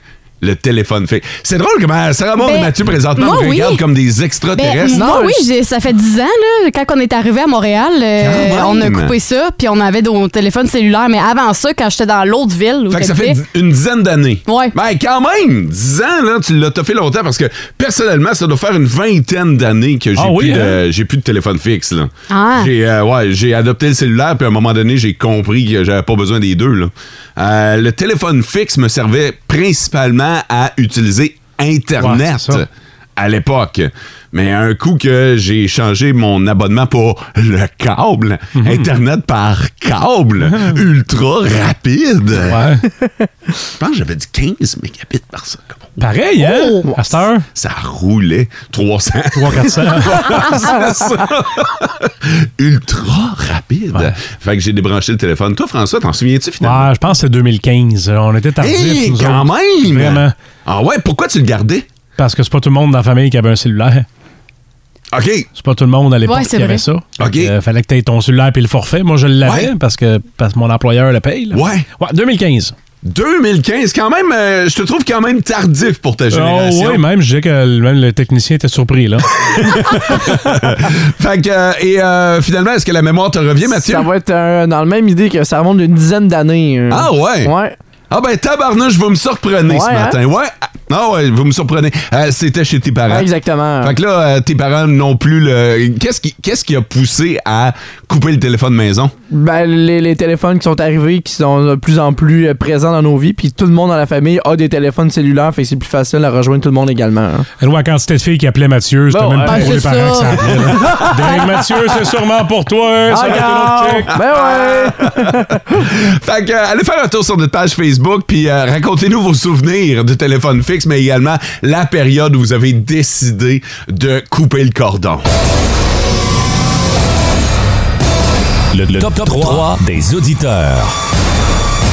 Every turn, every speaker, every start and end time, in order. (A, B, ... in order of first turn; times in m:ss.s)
0:00.4-0:05.0 A
0:02.4-0:03.8 B
0:04.5-0:13.4 B
0:04.9-0:05.5 C
0:08.2-0:09.1 A
0:12.9-0:32.6 A
0:14.5-0:14.7 B
0:20.2-0:20.8 D
0:22.3-0:22.7 B
0:32.0-0:32.6 D
0:33.2-0:42.8 A
0:38.6-0:38.9 D
0:42.5-0:42.8 D
0:43.8-0:46.0 A
0:46.0-0:47.4 D
0:46.4-0:46.8 B
0:47.5-0:56.9 A
0:49.3-0:50.6 D
0:56.6-1:00.3 D
0:58.6-1:01.9 A
1:02.2-1:04.0 D
1:05.1-1:05.5 A
1:05.6-1:12.7 D
1:06.2-1:06.8 B
1:07.2-1:07.5 A
1:09.4-1:09.7 A
1:11.5-1:11.9 A
1:13.0-1:17.0 A
1:16.3-1:19.3 D
1:19.4-1:24.1 A
1:23.7-1:27.8 C
1:26.9-1:27.5 A
1:28.1-1:33.3 A
1:29.7-1:30.2 C
1:33.1-1:33.9 C
1:33.8-1:39.1 A
1:39.3-1:47.5 C
1:47.6-1:54.1 D
1:49.1-1:51.8 C
1:49.4-1:50.5 B
1:53.1-1:55.6 C
1:54.1-2:05.3 A
2:08.7-2:10.9 E